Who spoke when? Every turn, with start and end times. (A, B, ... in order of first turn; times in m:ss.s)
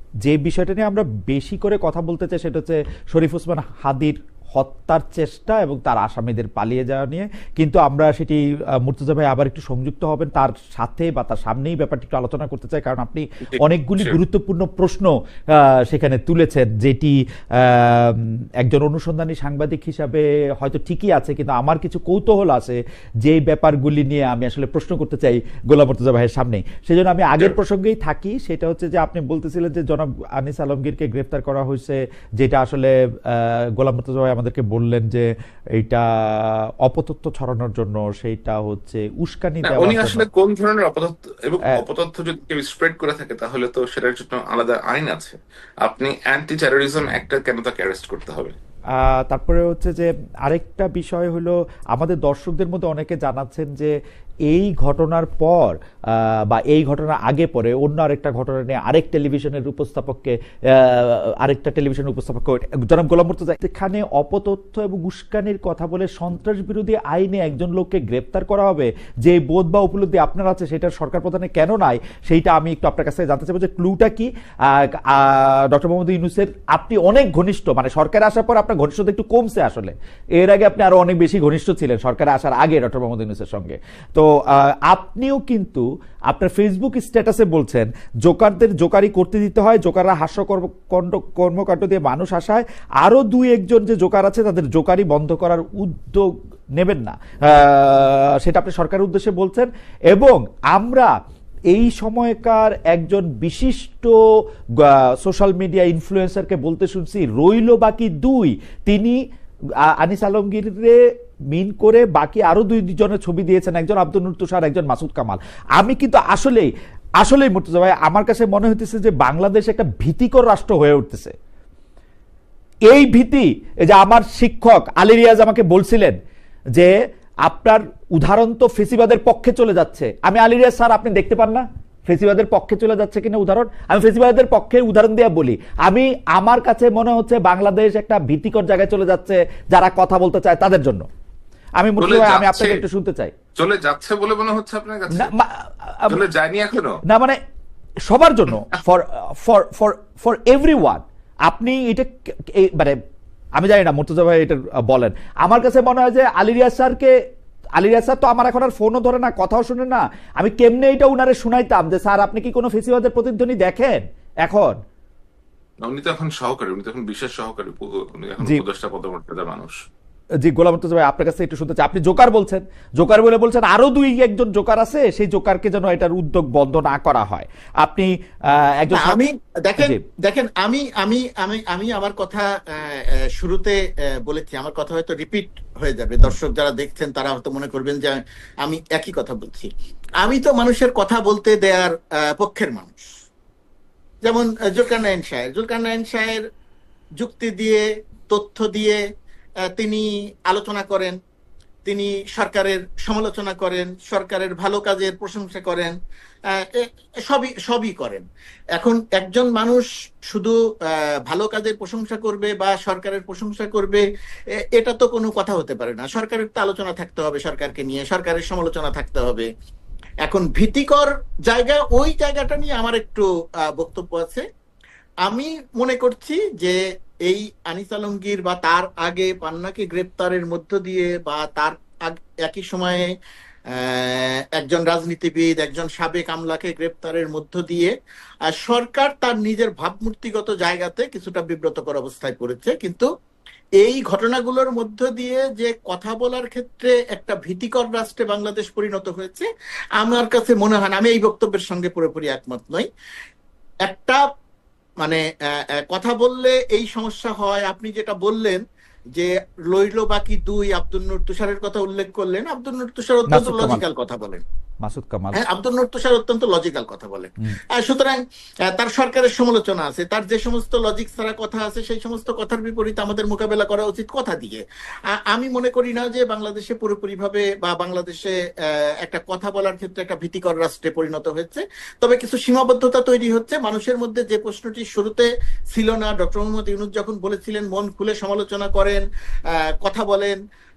0:00.2-0:35.2 A
0:13.5-0:14.2 B
0:35.8-0:40.2 A
0:39.6-0:48.5 B
0:49.0-0:53.9 A
0:54.5-1:41.1 A
1:41.7-1:44.1 A
1:44.8-1:49.2 A
1:50.0-1:51.0 A
1:51.5-2:01.3 A
2:02.9-2:06.2 A
2:07.4-2:21.0 A
2:21.8-2:23.3 A
2:22.0-2:22.8 B
2:23.6-2:25.3 B
2:25.2-2:26.2 A
2:26.1-2:27.0 B
2:27.1-2:27.4 A
2:28.1-2:33.0 A
2:33.6-2:37.1 A
2:37.8-2:44.7 A
2:45.8-2:49.7 B
2:50.4-2:59.2 A
2:58.9-3:13.0 C
3:14.2-3:16.4 C
3:17.2-3:19.0 C
3:19.7-3:21.1 C
3:21.8-3:25.9 C
3:26.5-3:28.2 C
3:28.8-3:34.0 C
3:34.6-3:39.5 C
3:40.2-3:44.4 C
3:45.2-3:53.1 C
3:53.7-3:57.9 C
3:58.5-4:03.1 C
4:03.8-4:09.4 C
4:10.0-4:12.8 C
4:13.8-4:14.2 C
4:15.9-4:18.6 C
4:19.2-4:24.4 C
4:23.3-4:23.8 A
4:24.8-4:25.4 A
4:25.3-4:28.2 C
4:28.7-4:49.0 C
4:49.5-4:50.4 C